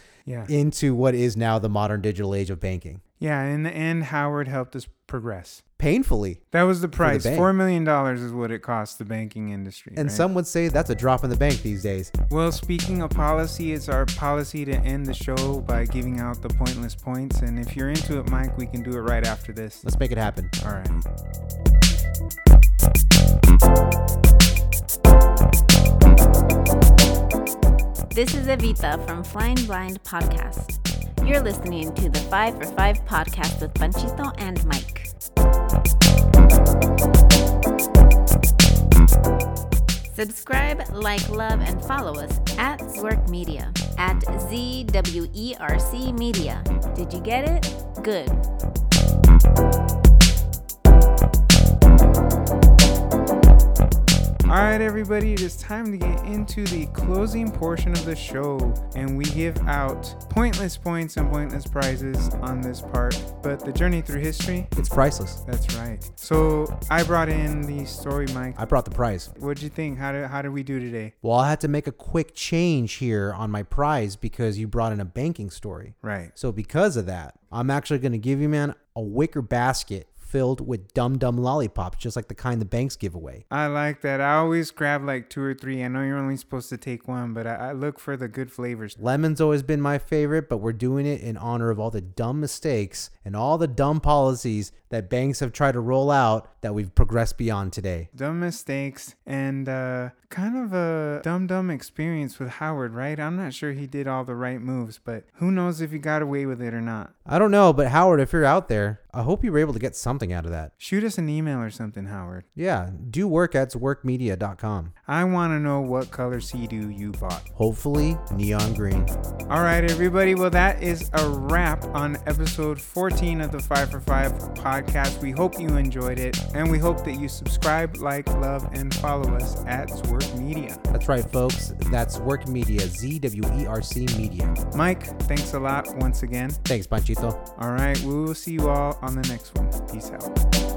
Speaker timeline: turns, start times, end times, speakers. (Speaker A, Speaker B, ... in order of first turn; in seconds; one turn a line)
Speaker A: 0.2-0.5
Speaker B: 0.5-3.0
Speaker A: 3.2-5.6
Speaker B: 5.8-6.4
Speaker A: 6.5-10.3
Speaker B: 7.0-7.5
Speaker B: 10.0-12.1
Speaker A: 12.3-19.9
Speaker B: 19.8-20.5
Speaker A: 20.6-21.0
Speaker C: 28.1-35.1
Speaker C: 40.1-48.4
Speaker A: 54.5-64.7
Speaker B: 64.8-65.4
Speaker A: 65.5-68.6
Speaker B: 68.6-69.3
Speaker A: 69.4-71.1
Speaker B: 71.2-83.4
Speaker A: 76.0-76.3
Speaker A: 83.5-89.0
Speaker B: 89.0-98.1
Speaker A: 98.2-107.1
Speaker B: 107.3-110.7
Speaker A: 110.8-112.5
Speaker B: 112.6-114.9
Speaker A: 115.1-117.5
Speaker B: 117.6-119.1
Speaker A: 119.5-130.8
Speaker B: 130.9-134.6
Speaker A: 134.7-136.6
Speaker B: 136.7-137.4
Speaker A: 137.6-140.3